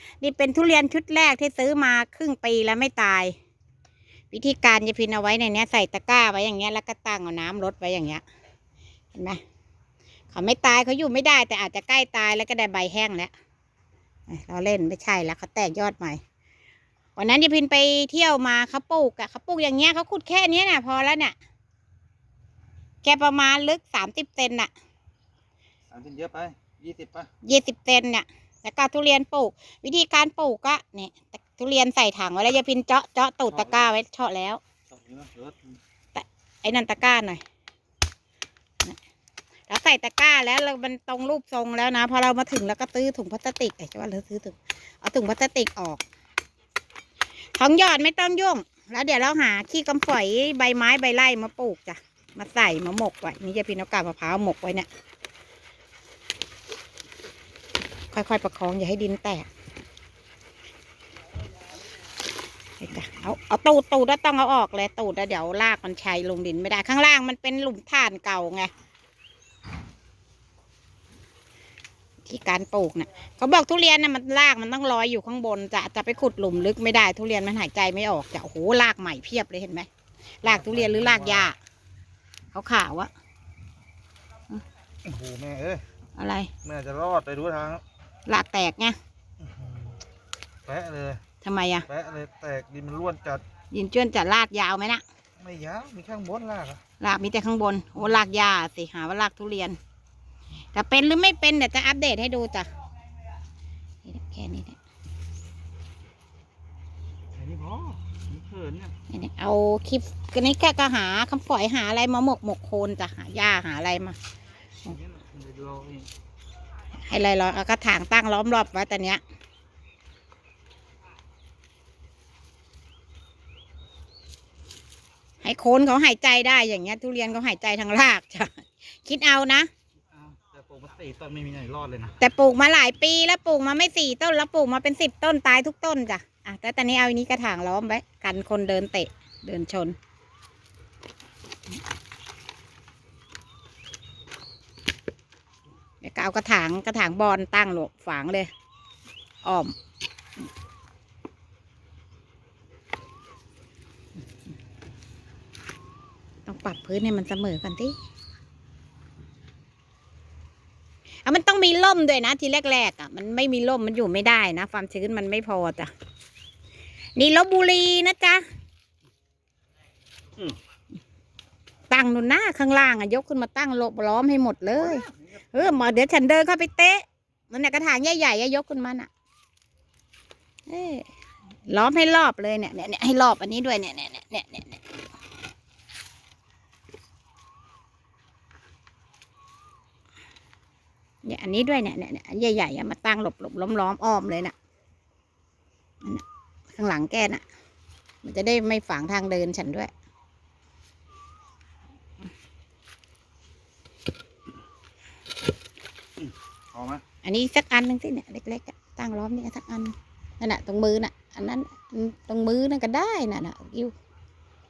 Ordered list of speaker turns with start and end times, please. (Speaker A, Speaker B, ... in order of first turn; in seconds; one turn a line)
Speaker A: 0.2-3.4
Speaker A: 4.3-8.2
Speaker A: 9.1-9.4
Speaker A: 10.3-13.3
Speaker A: 14.3-16.2
Speaker A: 17.2-21.4
Speaker A: 23.0-24.7
Speaker B: 25.9-27.3
Speaker A: 27.4-34.6
Speaker B: 34.9-35.6
Speaker A: 36.1-37.4
Speaker A: 39.7-46.0
Speaker A: 47.5-54.9
Speaker A: 58.1-59.5
Speaker A: 62.8-68.7
Speaker A: 72.2-79.9
Speaker A: 80.4-81.6
Speaker B: 80.7-81.4
Speaker A: 82.5-83.1
Speaker B: 85.0-85.8
Speaker A: 86.2-86.5
Speaker B: 86.6-87.8
Speaker A: 88.3-89.0
Speaker B: 89.5-89.9
Speaker B: 90.7-91.2
Speaker A: 91.4-91.9
Speaker B: 91.9-93.4
Speaker A: 93.7-95.0
Speaker B: 95.4-96.8
Speaker A: 97.0-99.8
Speaker A: 100.7-102.7
Speaker A: 104.0-104.8
Speaker B: 107.4-108.9
Speaker A: 109.1-114.2
Speaker B: 114.9-116.1
Speaker A: 117.0-119.2
Speaker A: 125.4-129.7
Speaker B: 130.2-132.2
Speaker A: 132.2-140.0
Speaker A: 146.0-148.5
Speaker A: 149.4-149.7
Speaker A: 156.5-158.0
Speaker A: 161.2-165.9
Speaker A: 167.2-168.4
Speaker A: 171.9-179.1
Speaker A: 180.7-181.1
Speaker A: 181.7-184.8
Speaker A: 191.2-194.6
Speaker A: 196.8-197.4
Speaker A: 198.2-199.9
Speaker B: 206.7-207.0
Speaker A: 207.2-213.9